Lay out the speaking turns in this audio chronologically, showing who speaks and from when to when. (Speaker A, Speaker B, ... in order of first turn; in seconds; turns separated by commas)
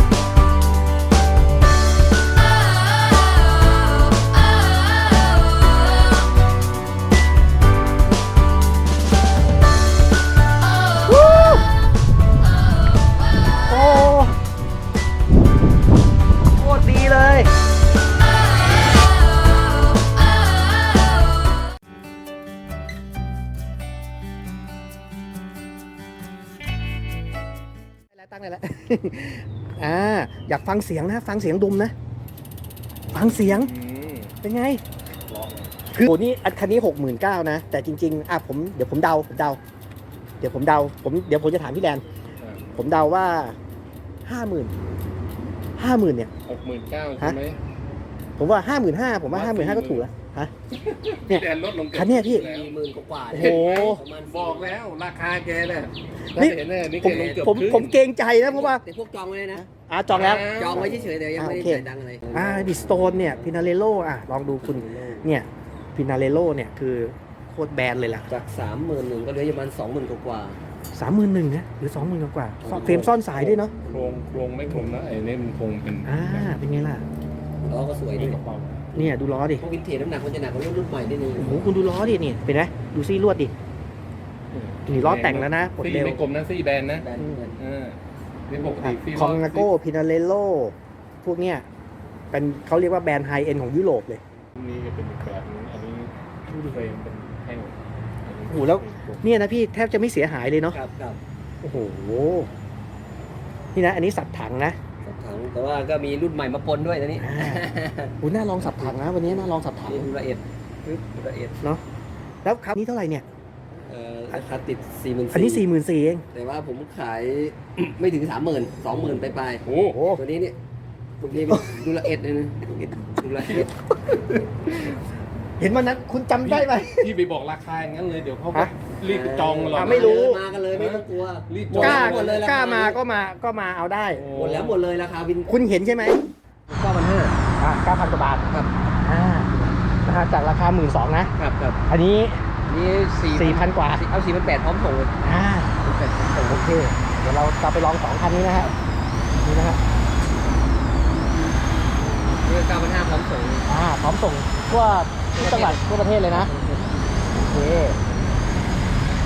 Speaker A: 11.1-11.6, Speaker A: 13.7-14.4, Speaker A: 16.6-17.5, Speaker A: 28.1-31.9, Speaker B: 33.1-34.3, Speaker A: 33.1-33.7, Speaker A: 34.4-34.8, Speaker B: 35.3-35.7, Speaker A: 35.9-39.6, Speaker A: 40.4-42.0, Speaker B: 42.4-42.7, Speaker A: 42.8-43.5, Speaker A: 44.2-44.7, Speaker A: 45.8-46.3, Speaker B: 46.4-47.6, Speaker A: 48.4-50.5, Speaker B: 49.3-50.0, Speaker B: 50.7-52.7, Speaker A: 51.3-52.4, Speaker C: 52.3-54.7, Speaker A: 53.3-54.0, Speaker B: 53.3-57.9, Speaker C: 57.0-57.5, Speaker A: 57.4-58.8, Speaker C: 58.4-63.5, Speaker A: 59.5-68.3, Speaker B: 60.1-60.9, Speaker C: 64.5-65.3, Speaker C: 68.3-70.6, Speaker A: 70.9-73.7, Speaker C: 72.6-73.1, Speaker B: 72.7-76.6, Speaker C: 73.8-74.2, Speaker A: 76.0-77.0, Speaker C: 77.7-78.4, Speaker B: 78.2-78.8, Speaker A: 78.9-79.6, Speaker C: 79.0-81.9, Speaker A: 81.4-83.5, Speaker B: 84.5-87.0, Speaker A: 84.9-86.2, Speaker C: 87.0-87.6, Speaker B: 87.6-88.0, Speaker B: 88.5-89.7, Speaker A: 88.8-91.6, Speaker A: 92.3-94.2, Speaker B: 94.6-99.2, Speaker A: 96.5-96.8, Speaker A: 98.5-100.8, Speaker C: 100.7-101.2, Speaker A: 101.6-102.5, Speaker A: 103.7-104.8, Speaker C: 105.0-111.6, Speaker A: 107.2-107.6, Speaker A: 108.2-110.1, Speaker A: 112.4-113.2, Speaker C: 113.8-115.6, Speaker A: 115.3-116.2, Speaker C: 116.3-119.6, Speaker B: 119.6-120.0, Speaker A: 119.8-120.2, Speaker C: 120.1-120.5, Speaker C: 121.2-123.7, Speaker A: 125.6-127.1, Speaker B: 126.4-132.3, Speaker C: 129.0-133.0, Speaker A: 129.7-130.4, Speaker A: 131.8-134.2, Speaker B: 134.1-134.8, Speaker C: 134.3-135.5, Speaker A: 135.5-136.2, Speaker C: 136.7-137.3, Speaker A: 137.6-138.4, Speaker A: 139.0-139.5, Speaker C: 139.5-139.8, Speaker A: 140.0-141.3, Speaker C: 141.4-141.8, Speaker A: 141.9-142.4, Speaker C: 142.7-145.1, Speaker A: 143.3-144.0, Speaker A: 145.2-145.8, Speaker C: 145.8-146.6, Speaker A: 146.4-148.7, Speaker A: 149.3-149.8, Speaker C: 152.0-153.7, Speaker A: 153.7-156.5, Speaker C: 155.3-157.4, Speaker A: 157.4-158.0